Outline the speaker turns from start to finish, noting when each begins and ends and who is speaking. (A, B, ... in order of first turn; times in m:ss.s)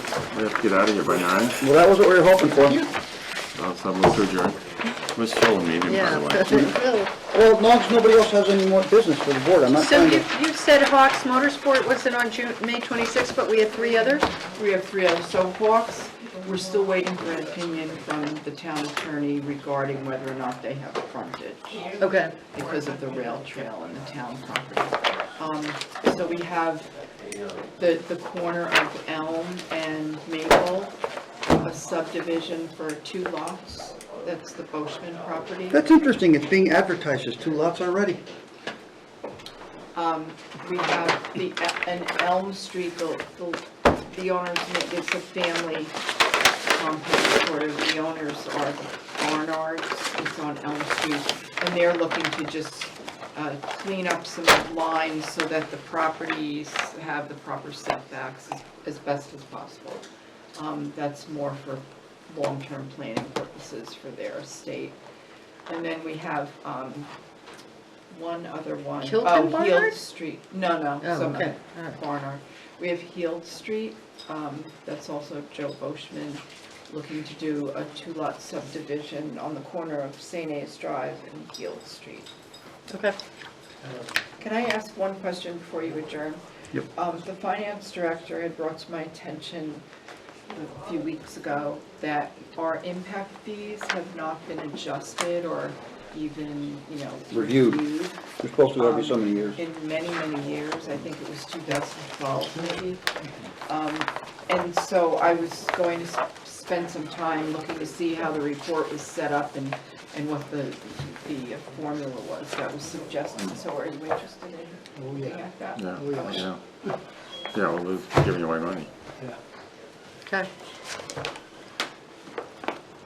0:00.3-0:01.6 A
0:01.6-0:02.9 B
0:03.5-0:04.6 A
0:05.1-0:06.6 A
0:05.8-0:07.1 C
0:06.5-0:10.3 B
0:09.7-0:14.3 C
0:14.4-0:22.0 D
0:22.0-0:22.3 C
0:22.5-0:26.9 D
0:27.8-0:30.9 D
0:31.6-0:35.8 D
0:35.7-0:38.2 B
0:39.9-0:46.0 D
0:46.7-1:05.0 D
1:05.7-1:07.1 D
1:08.1-1:22.3 D
1:09.0-1:09.9 C
1:11.0-1:12.0 C
1:22.9-1:23.2 C
1:24.4-1:29.8 D
1:30.5-1:38.2 D
1:37.3-1:37.8 B
1:38.4-1:39.6 B
1:38.8-1:43.0 D
1:43.7-1:56.5 D
1:55.8-1:56.6 A
1:57.5-1:58.9 A